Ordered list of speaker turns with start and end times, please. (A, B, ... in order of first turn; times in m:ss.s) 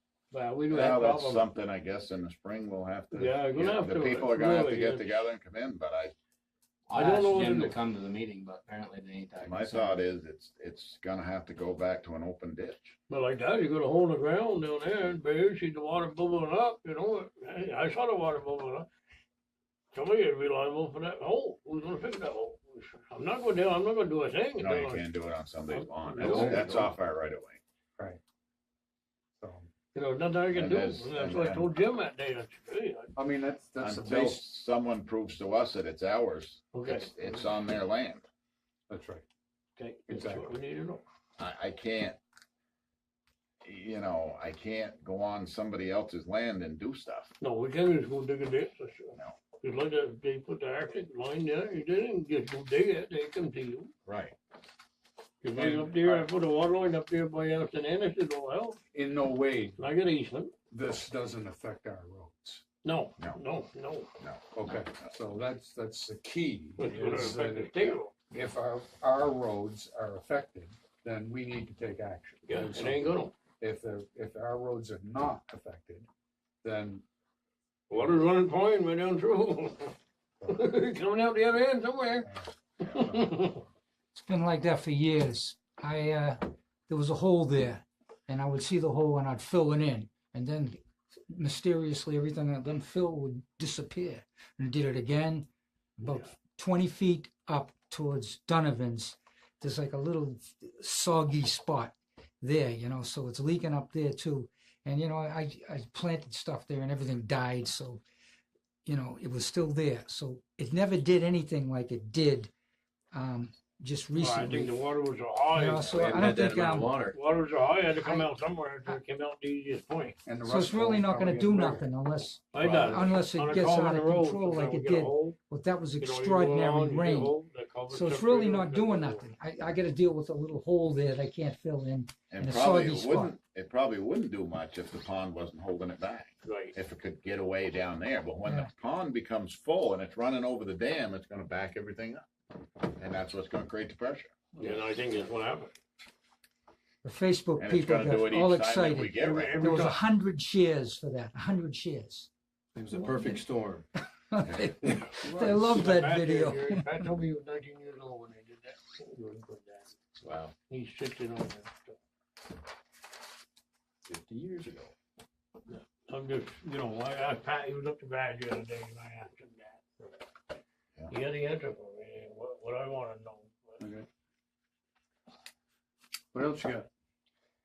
0:00.3-0:01.5 A
0:00.7-0:06.1 B
0:03.1-0:05.2 A
0:06.9-0:10.0 C
0:06.9-0:07.8 A
0:09.4-0:12.9 B
0:13.1-0:18.9 A
0:19.9-0:25.1 A
0:24.6-0:27.6 B
0:25.7-0:26.9 A
0:26.3-0:26.8 D
0:29.4-0:29.7 D
0:29.9-0:33.1 A
0:30.5-0:31.7 B
0:33.2-0:34.5 D
0:33.8-0:38.2 B
0:36.7-0:37.4 A
0:38.9-0:39.2 D
0:39.8-0:41.0 A
0:40.1-0:40.5 D
0:41.4-0:42.2 B
0:43.6-0:47.3 B
0:47.4-0:53.9 A
0:54.0-0:54.4 B
0:55.4-0:58.8 A
0:55.6-0:56.3 D
0:58.9-0:59.8 D
0:59.8-1:00.5 A
1:00.7-1:02.6 D
1:02.8-1:04.1 A
1:04.2-1:05.2 B
1:04.6-1:16.1 D
1:06.8-1:08.1 A
1:12.5-1:13.3 A
1:16.6-1:17.0 D
1:17.9-1:22.3 A
1:22.2-1:23.4 D
1:22.8-1:23.6 A
1:24.1-1:30.8 E
1:31.3-1:35.5 E
1:36.0-1:48.0 E
1:48.9-1:52.5 E
1:53.1-1:54.8 E
1:54.2-1:56.2 A
1:55.5-1:56.9 E
1:55.9-1:57.2 F
1:57.1-2:00.2 A
1:58.0-1:58.3 E
2:00.2-2:01.9 D
2:00.4-2:07.4 E
2:02.5-2:05.4 A
2:02.6-2:03.0 F
2:06.0-2:09.3 A
2:07.9-2:13.4 E
2:12.3-2:22.2 B
2:16.4-2:16.8 A
2:18.4-2:18.7 E
2:22.8-2:24.4 B
2:24.6-2:25.7 A
2:27.0-2:32.3 E
2:27.6-2:29.8 B
2:29.2-2:30.0 A
2:32.8-2:33.8 F
2:34.3-2:37.0 E
2:34.5-2:34.7 B
2:35.1-2:40.0 A
2:40.2-2:40.5 F
2:40.7-2:42.0 A
2:44.1-2:44.9 F
2:45.7-2:50.2 A
2:51.1-2:53.8 A
2:53.8-2:54.1 D
2:56.3-2:56.9 D